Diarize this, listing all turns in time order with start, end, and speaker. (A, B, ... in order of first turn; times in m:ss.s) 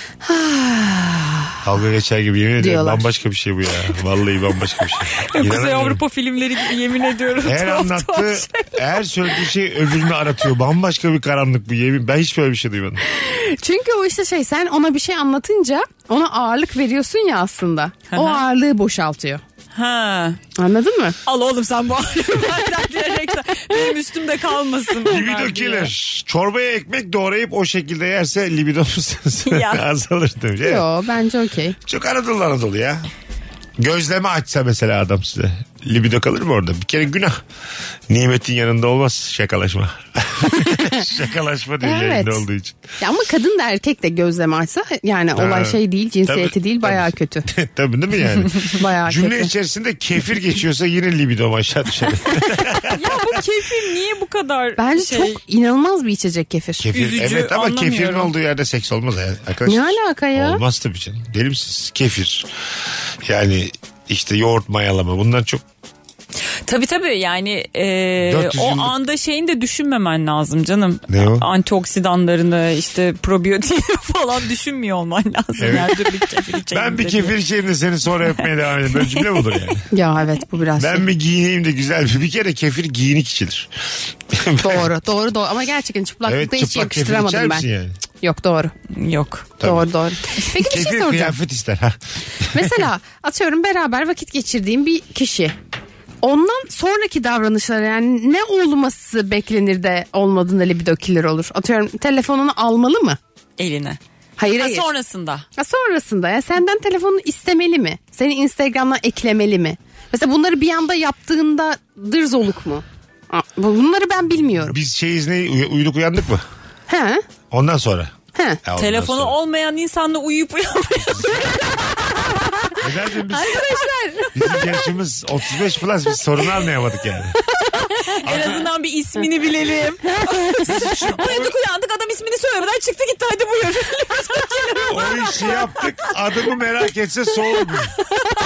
0:00.2-0:01.6 A
0:01.6-0:06.0 B
0:02.6-0:03.0 A
0:05.2-0:09.0 C
0:07.4-0:13.0 B
0:13.1-0:19.4 A
0:18.1-0:18.4 C
0:19.7-0:20.4 C
0:20.5-0:21.2 A
0:21.2-0:25.9 C
0:25.0-0:30.8 B
0:29.4-0:29.8 C
0:30.6-0:31.8 A
0:31.8-0:33.0 B
0:33.8-0:37.4 B
0:38.1-0:42.8 B
0:40.6-0:41.0 A
0:41.8-0:42.4 A
0:43.0-0:47.5 A
0:45.3-0:53.4 B
0:48.8-0:49.5 A
0:52.8-0:55.4 C
0:54.8-0:56.9 A
0:56.8-1:02.5 B
0:56.9-0:58.3 C
0:59.6-1:00.6 A
1:03.2-1:05.6 B
1:06.7-1:17.3 C
1:08.2-1:08.9 B
1:11.1-1:11.4 B
1:15.6-1:15.9 B
1:16.7-1:19.9 B
1:18.9-1:19.4 C
1:19.9-1:21.1 A
1:20.8-1:23.7 B
1:24.3-1:24.9 B
1:24.6-1:27.6 A
1:26.2-1:28.0 B
1:28.2-1:28.7 A
1:28.9-1:29.5 C
1:29.6-1:29.9 B
1:29.6-1:31.3 A
1:30.5-1:32.8 B
1:32.5-1:35.5 A
1:36.2-1:43.2 A
1:43.6-1:44.0 C
1:44.4-1:44.8 A
1:44.5-1:45.4 C
1:45.6-1:54.7 A
1:54.6-1:56.4 B
1:56.9-1:57.2 A
1:57.5-1:59.3 B
1:58.8-2:02.8 C
2:01.2-2:01.5 B
2:02.8-2:03.6 B
2:03.3-2:04.5 A
2:04.3-2:07.4 B
2:07.8-2:15.5 C
2:08.2-2:08.6 B
2:10.7-2:11.6 B
2:14.9-2:17.9 B